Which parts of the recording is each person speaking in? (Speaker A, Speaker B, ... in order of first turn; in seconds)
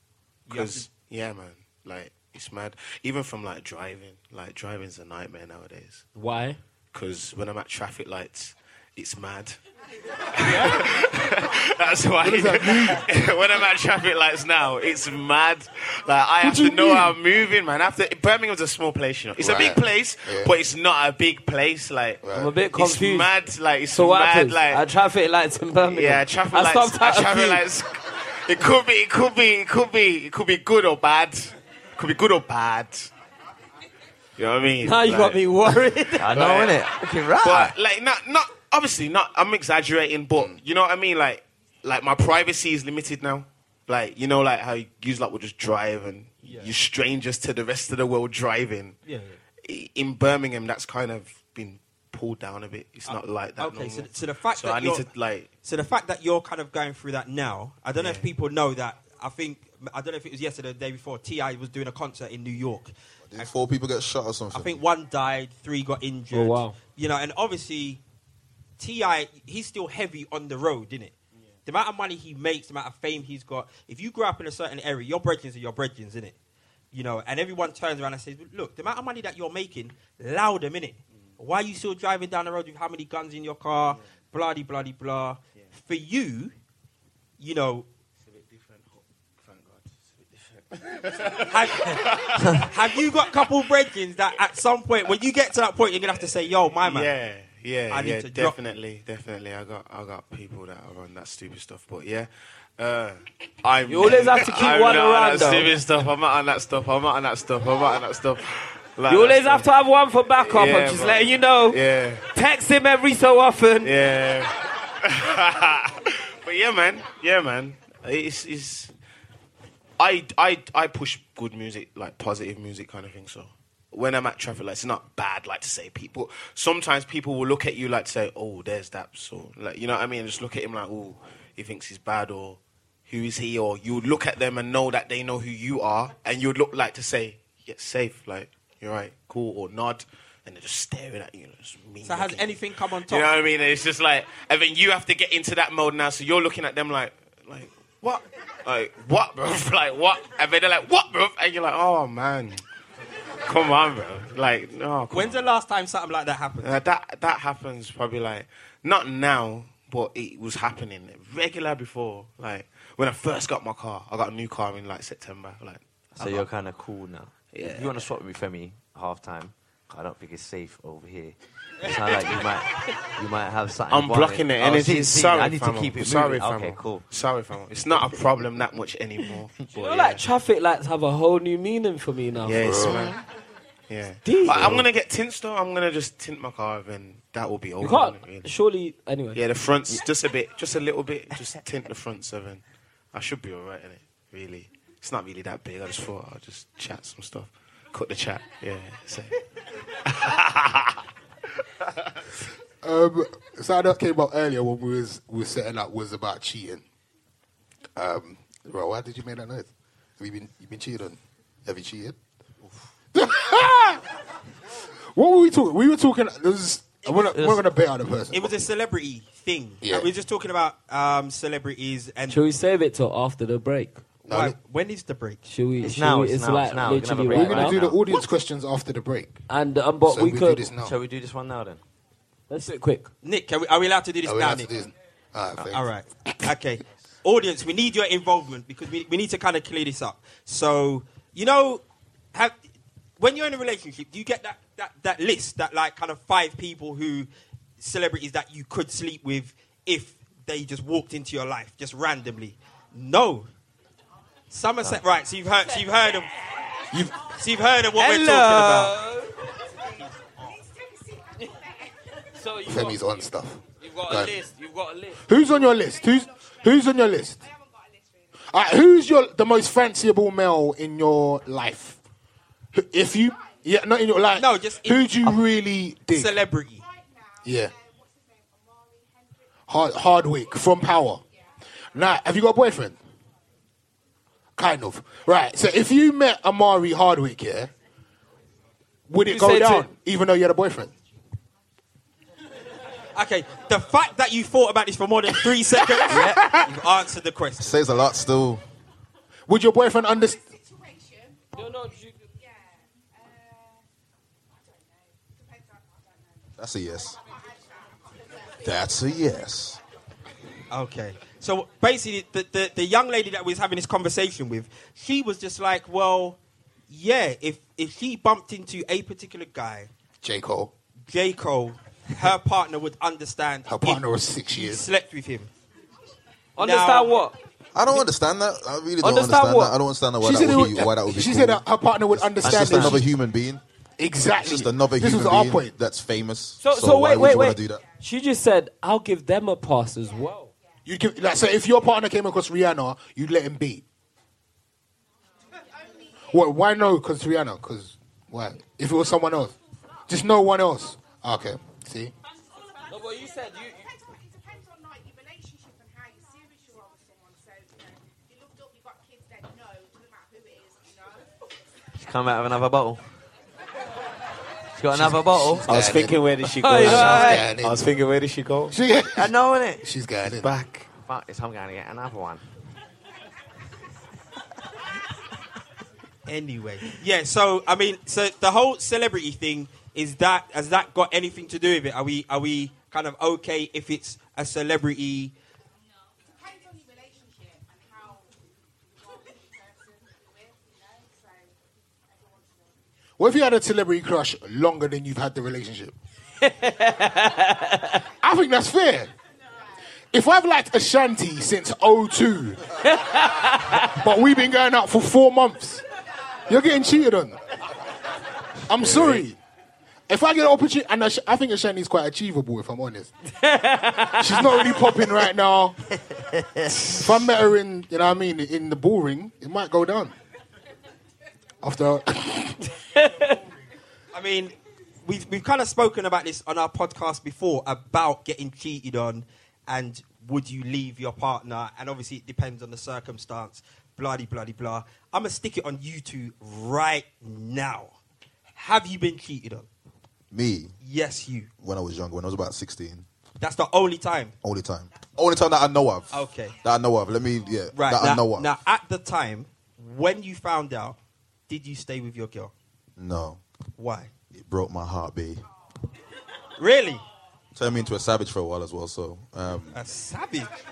Speaker A: 0.5-6.0, 6.9-9.6, 10.3-24.8, 25.9-33.1, 34.4-49.0, 49.6-55.5, 58.0-58.3, 88.2-92.7, 96.8-109.7, 110.4-112.2, 113.8-118.9, 120.0-152.6, 153.4-155.5, 156.6-166.5, 167.5-168.1, 173.9-180.2, 182.4-183.2, 183.9-188.5, 189.3-201.0, 201.8-202.2, 365.7-368.7, 370.3-370.9
Speaker B: 0.5-0.9, 46.4-46.7, 49.0-49.4, 53.0-55.1, 55.6-63.5, 64.5-68.0, 68.8-71.1, 71.7-76.3, 76.9-86.5, 87.4-87.9, 91.4-97.1, 97.9-98.5, 142.0-143.3, 155.1-156.8, 218.3-222.4, 224.3-225.4, 233.2-234.7, 235.7-241.8, 243.2-253.5, 254.5-256.3, 257.3-259.0, 260.0-260.4, 274.4-275.3, 276.1-276.8, 293.1-297.8, 310.7-316.4, 316.9-319.9, 321.1-325.5, 326.6-327.1, 376.2-385.3, 424.1-437.9, 438.6-439.7, 440.8-441.5, 443.4-444.3, 446.1-446.6, 447.7-451.0, 451.5-452.5, 453.8-454.1, 456.6-457.0, 459.7-460.5
Speaker C: 6.1-6.6, 22.3-23.3, 23.9-27.6, 34.8-36.5, 66.3-66.8, 103.9-105.7, 109.1-111.8, 112.3-113.9, 179.7-182.8, 184.2-184.8, 187.8-189.4, 222.3-224.0, 225.5-227.8, 229.5-230.7, 232.5-233.1, 258.0-259.4, 262.3-263.2, 263.8-265.2, 289.2-289.9, 301.5-302.1, 326.6-327.3, 329.0-329.8, 336.6-340.5, 352.9-353.8, 366.6-367.4, 396.4-398.0, 402.9-403.9, 413.4-414.8, 422.9-423.3
Speaker D: 12.2-13.1, 16.4-17.1, 19.4-20.5, 22.2-22.5, 182.6-183.1, 202.8-206.8, 207.9-212.2, 213.1-214.0, 215.1-218.5, 219.8-220.1, 224.3-224.5, 227.3-229.4, 230.0-230.9, 234.2-235.9, 256.9-257.1, 262.6-264.3, 265.2-267.4, 268.5-272.0, 272.7-276.3, 277.4-277.7, 279.7-281.2, 281.9-283.0, 284.6-287.7, 289.1-290.9, 295.8-296.7, 299.5-300.4, 320.2-320.7, 323.6-324.9, 330.2-333.1, 334.0-335.7, 340.9-343.8, 346.3-349.5, 350.1-352.1, 364.9-366.2, 366.8-367.8, 368.7-370.5, 393.2-395.9, 398.2-399.1, 400.1-402.6, 403.7-405.8, 406.5-407.4, 408.7-409.4, 410.1-413.1, 414.1-415.8, 416.8-420.1, 421.6-422.6
Speaker E: 36.2-37.8, 166.2-177.1, 217.2-217.6, 225.8-228.2, 230.8-231.8, 332.4-333.1, 361.9-363.0, 364.7-365.7, 366.8-367.5, 369.1-369.9, 370.9-372.4, 416.2-417.0
Speaker F: 63.3-64.8, 297.6-298.6, 306.6-307.2, 308.6-309.8, 327.7-333.6, 334.4-337.8, 440.3-440.7, 441.6-443.1, 444.4-448.5, 453.0-453.4, 454.3-455.4, 457.5-459.8
Speaker G: 260.4-262.1, 265.7-266.7, 267.4-268.4, 276.8-279.4, 300.6-301.6, 302.3-303.8, 304.7-306.5, 307.0-308.9, 345.5-346.2, 352.2-361.3, 386.3-388.3, 389.0-391.5, 392.1-392.7